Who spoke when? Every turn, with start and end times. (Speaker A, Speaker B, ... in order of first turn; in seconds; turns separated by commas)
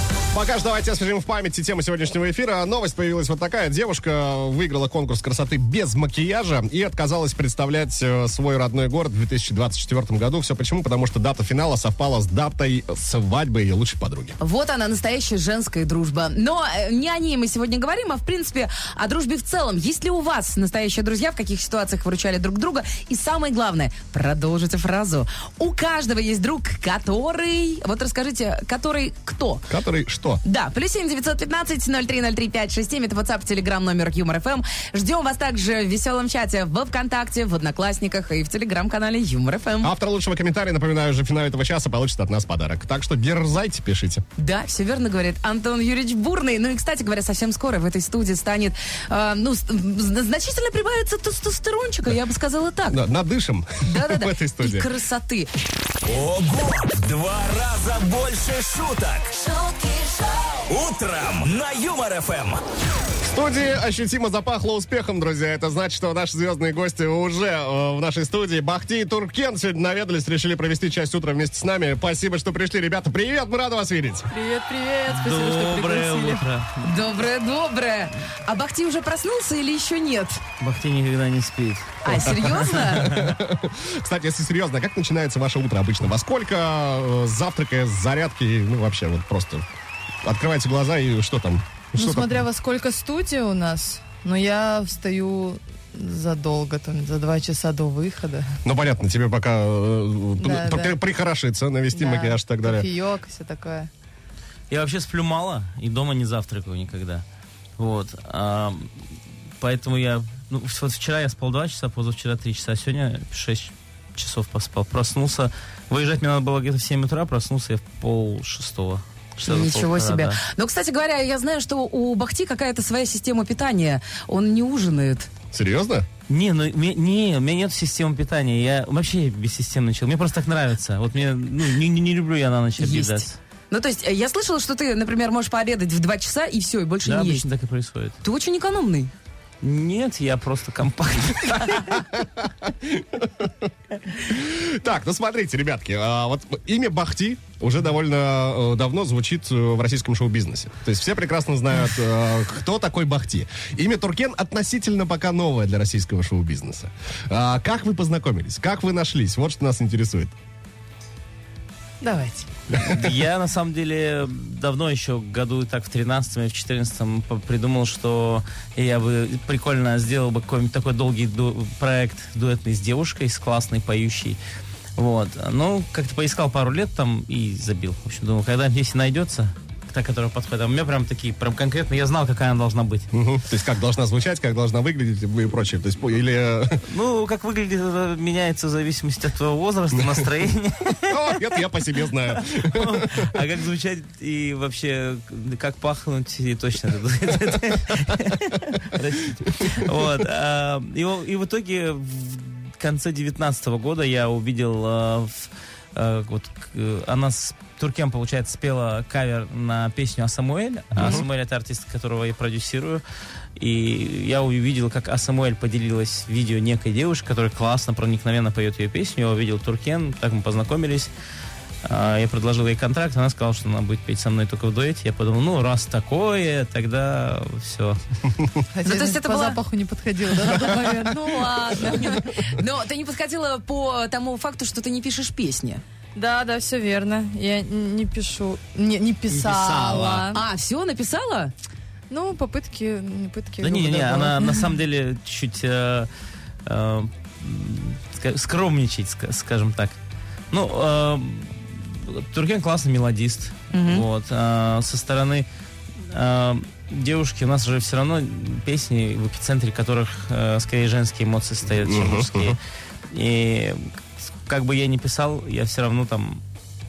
Speaker A: 0.3-14.4, Speaker B: 14.4-29.7, Speaker A: 29.7-30.4, Speaker B: 30.4-39.9, Speaker A: 39.8-44.2, Speaker B: 44.4-53.0, Speaker A: 52.9-54.9, Speaker B: 53.8-55.5, Speaker C: 56.0-59.4, Speaker B: 59.4-60.6, Speaker C: 60.6-62.6, Speaker A: 63.2-74.3, Speaker D: 74.3-76.4, Speaker E: 75.1-76.9, Speaker B: 76.8-80.4, Speaker E: 80.6-82.9, Speaker B: 82.0-83.2, Speaker A: 82.2-89.7, Speaker A: 90.2-92.4, Speaker D: 92.0-98.5, Speaker A: 98.6-102.9, Speaker D: 100.4-101.0, Speaker D: 101.9-103.9, Speaker E: 104.7-107.2, Speaker E: 107.8-108.9, Speaker E: 109.6-120.4, Speaker B: 119.4-125.3, Speaker A: 125.5-126.1, Speaker E: 126.3-133.4, Speaker B: 132.8-137.4, Speaker E: 137.0-138.2, Speaker B: 138.2-139.1, Speaker E: 139.6-142.1, Speaker A: 142.6-143.7, Speaker A: 144.2-160.3, Speaker D: 162.0-162.5, Speaker E: 162.8-174.4, Speaker E: 174.9-183.1, Speaker A: 183.1-186.8, Speaker E: 186.8-191.4, Speaker A: 191.0-193.3, Speaker E: 192.4-213.0, Speaker A: 210.9-211.2, Speaker E: 213.6-221.1, Speaker E: 221.8-228.0, Speaker D: 228.7-232.4, Speaker B: 228.8-229.6, Speaker B: 231.8-235.8, Speaker D: 236.1-240.4, Speaker E: 239.3-240.3, Speaker B: 240.3-241.5, Speaker D: 242.1-244.7, Speaker E: 243.6-246.1, Speaker E: 246.6-250.0, Speaker E: 250.5-255.5, Speaker B: 253.7-254.0, Speaker E: 256.0-262.6, Speaker A: 261.8-262.6, Speaker E: 263.1-266.4